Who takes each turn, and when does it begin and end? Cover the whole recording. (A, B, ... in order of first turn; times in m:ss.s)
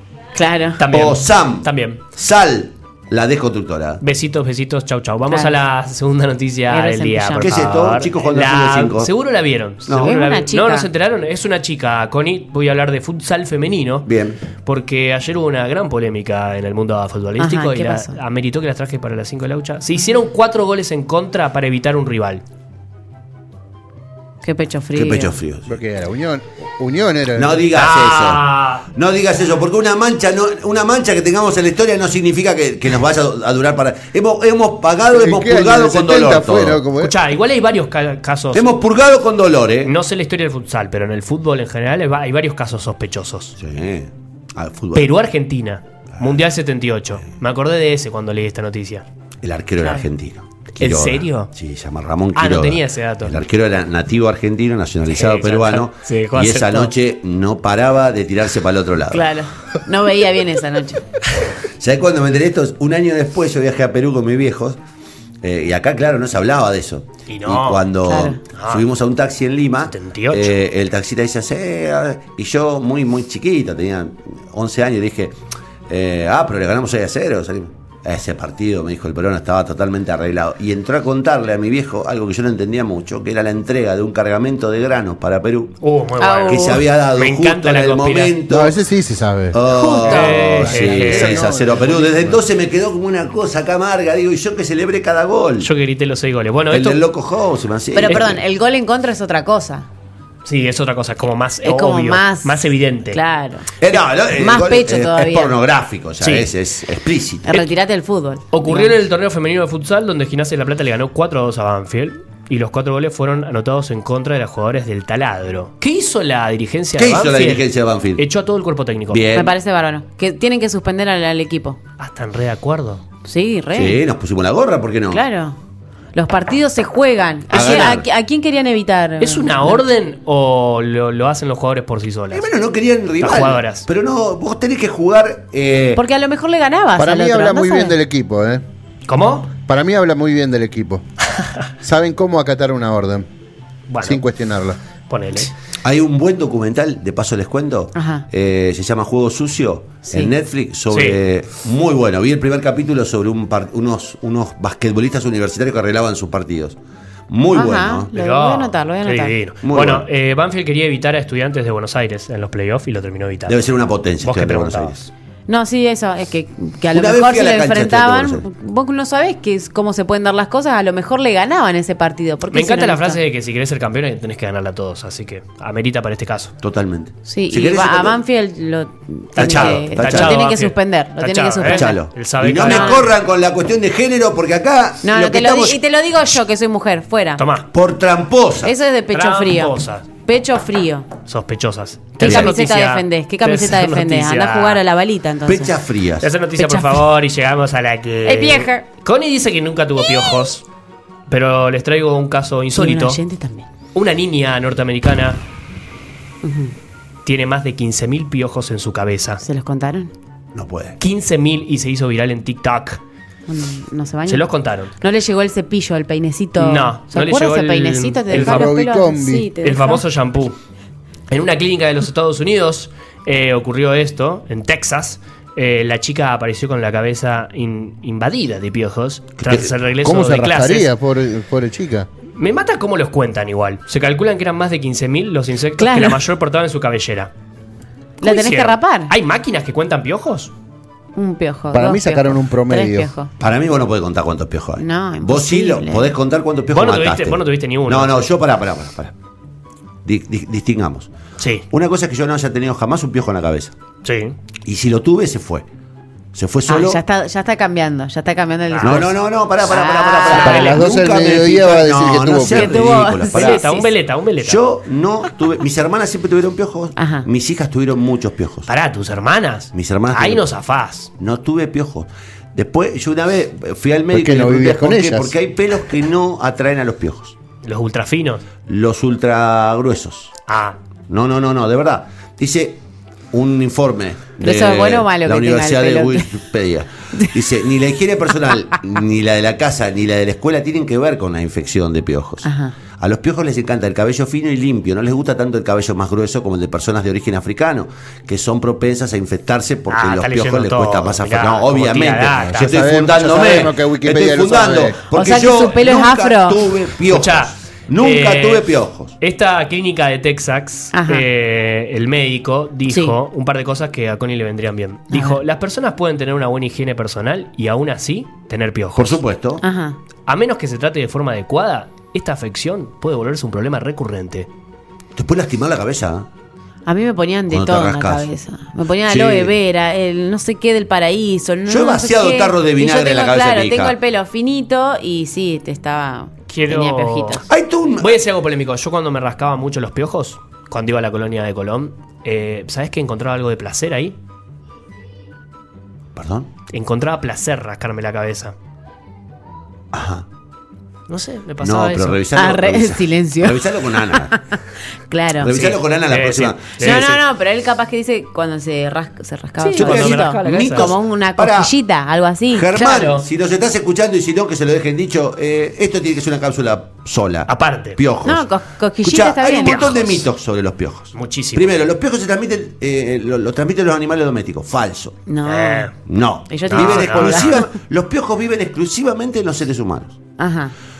0:00.3-0:00.8 A
0:00.8-0:02.0 B
0:00.9-0:04.0 C
0:04.0-0:14.1 B
0:05.3-0:05.5 A
0:06.7-0:07.7 A
0:07.4-0:09.1 C
0:09.9-0:10.1 C
0:09.9-0:10.9 A
0:14.0-0:14.4 C
0:14.6-0:22.4 B
0:17.4-0:18.2 A
0:24.4-0:25.4 A
0:24.9-0:25.8 C
0:25.7-0:27.7 D
0:27.4-0:36.8 C
0:27.7-0:28.9 B
0:35.1-0:37.1 D
0:37.0-0:38.8 B
0:38.5-0:39.9 C
0:39.8-0:43.6 B
0:43.6-0:45.1 C
0:44.9-0:49.0 B
0:49.4-0:59.2 C
0:49.8-0:50.1 A
0:50.8-0:51.5 B
0:52.3-0:53.4 B
0:55.1-0:56.9 B
0:59.1-1:01.0 A
1:01.8-1:04.8 C
1:05.4-1:25.8 C
1:07.3-1:07.8 B
1:08.0-1:08.4 A
1:08.5-1:08.8 B
1:09.9-1:10.5 B
1:25.8-1:28.3 B
1:26.2-1:26.8 A
1:26.5-1:28.8 C
1:28.5-1:29.6 D
1:29.5-1:35.7 C
1:29.7-1:30.6 A
1:30.0-1:31.6 B
1:30.6-1:32.4 D
1:35.6-1:37.0 B
1:36.7-1:38.4 C
1:37.9-1:39.9 A
1:40.4-1:43.2 B
1:41.6-1:45.6 A
1:43.8-1:47.5 C
1:46.2-1:46.5 B
1:47.5-1:48.9 A
1:48.5-1:59.3 B
1:57.0-1:58.2 C
1:59.1-1:59.5 C
1:59.3-2:01.8 A
2:02.0-2:03.0 B
2:03.2-2:04.0 A
2:03.7-2:05.2 C
2:05.1-2:05.6 A
2:06.1-2:09.8 A
2:07.5-2:08.0 C
2:07.6-2:07.8 B
2:09.2-2:12.5 B
2:12.3-2:16.0 C
2:13.2-2:13.8 B
2:16.0-2:17.9 A
2:17.0-2:18.6 D
2:19.1-2:19.5 B
2:19.7-2:21.0 D
2:21.8-2:23.3 D
2:23.9-2:24.2 B
2:24.0-2:24.8 D
2:25.1-2:25.5 B
2:25.8-2:36.8 C
2:27.9-2:28.2 A
2:30.9-2:31.2 B
2:37.3-2:38.1 C
2:37.5-2:39.4 A
2:38.1-2:43.6 B
2:39.6-2:40.0 C
2:43.5-2:45.0 C
2:44.2-2:45.1 B
2:45.5-2:53.2 A
2:46.9-2:48.4 C
2:52.5-2:56.5 B
2:56.6-2:58.2 C
2:57.2-3:02.0 A
2:59.3-3:03.1 B
2:59.4-3:00.4 C
3:01.6-3:05.8 C
3:02.6-3:03.1 A
3:05.0-3:07.4 A
3:07.4-3:07.7 B
3:07.7-3:08.7 C
3:08.6-3:11.1 A
3:09.1-3:10.1 B
3:11.3-3:14.8 B
3:12.2-3:15.7 A
3:12.2-3:12.5 C
3:15.4-3:16.3 C
3:16.2-3:20.6 B
3:16.6-3:17.0 A
3:18.2-3:18.8 A
3:21.3-3:23.2 B
3:22.7-3:23.7 A
3:23.9-3:25.4 B
3:26.4-3:26.7 A
3:27.2-3:29.4 B
3:29.4-3:30.1 A
3:30.5-3:31.0 C
3:31.0-3:33.0 B
3:33.5-3:34.5 A
3:34.3-3:34.9 B
3:35.0-3:40.0 A
3:36.6-3:38.7 B
3:38.3-3:39.5 D
3:39.6-3:40.6 B
3:41.3-3:50.9 B
3:50.0-3:52.1 D
3:52.4-3:57.3 B
3:55.8-3:56.2 A
3:58.2-3:59.1 A
3:58.2-4:00.5 B
4:01.2-4:03.3 A
4:01.7-4:03.1 D
4:03.4-4:09.1 C
4:04.8-4:06.1 A
4:06.7-4:08.3 B
4:10.0-4:11.1 C
4:11.4-4:11.7 B
4:11.7-4:13.7 C
4:14.0-4:14.4 B
4:14.6-4:15.7 C
4:16.3-4:17.0 C
4:16.7-4:20.8 A
4:18.7-4:19.0 B
4:18.8-4:23.6 C
4:20.2-4:20.8 B
4:20.4-4:23.0 D
4:22.4-4:23.9 A
4:23.2-4:24.6 B
4:24.4-4:28.7 C
4:27.0-4:27.3 A
4:28.7-4:31.1 B
4:29.7-4:30.4 C
4:31.2-4:37.4 C
4:34.1-4:35.3 D
4:37.6-4:38.4 B
4:38.6-4:40.3 C
4:40.5-4:40.8 B
4:41.1-5:09.2 C
4:44.4-4:46.3 A
4:52.4-4:52.8 A
4:59.9-5:02.8 B
5:02.6-5:05.0 D
5:05.1-5:06.7 A
5:07.1-5:19.2 B
5:10.9-5:11.3 A
5:12.9-5:13.2 A
5:15.1-5:15.4 A
5:19.0-5:19.6 C
5:19.6-5:20.0 A
5:20.2-5:24.5 B
5:25.1-5:26.3 C
5:26.8-5:37.4 A
5:27.5-5:28.3 C
5:29.1-5:29.5 C
5:31.7-5:34.0 C
5:36.5-5:37.4 B
5:37.5-5:38.2 C
5:38.0-5:44.2 B
5:46.1-5:46.5 C
5:46.7-5:48.5 B
5:49.9-5:50.2 C
5:51.1-5:52.2 B
5:51.6-5:54.3 C
5:52.3-5:54.6 A
5:55.1-5:55.7 A
5:55.4-5:57.1 C
5:55.6-5:57.2 B
5:56.8-6:03.1 A
5:59.6-6:00.9 B
5:59.7-6:01.7 C
6:02.5-6:08.5 C
6:02.7-6:03.2 B
6:07.5-6:08.0 B
6:08.2-6:09.9 A
6:09.0-6:15.2 C
6:09.6-6:10.2 B
6:11.1-6:11.7 B
6:15.3-6:15.9 A
6:15.4-6:15.9 B
6:16.0-6:20.2 C
6:16.5-6:17.6 A
6:16.7-6:17.6 B
6:20.4-6:20.7 A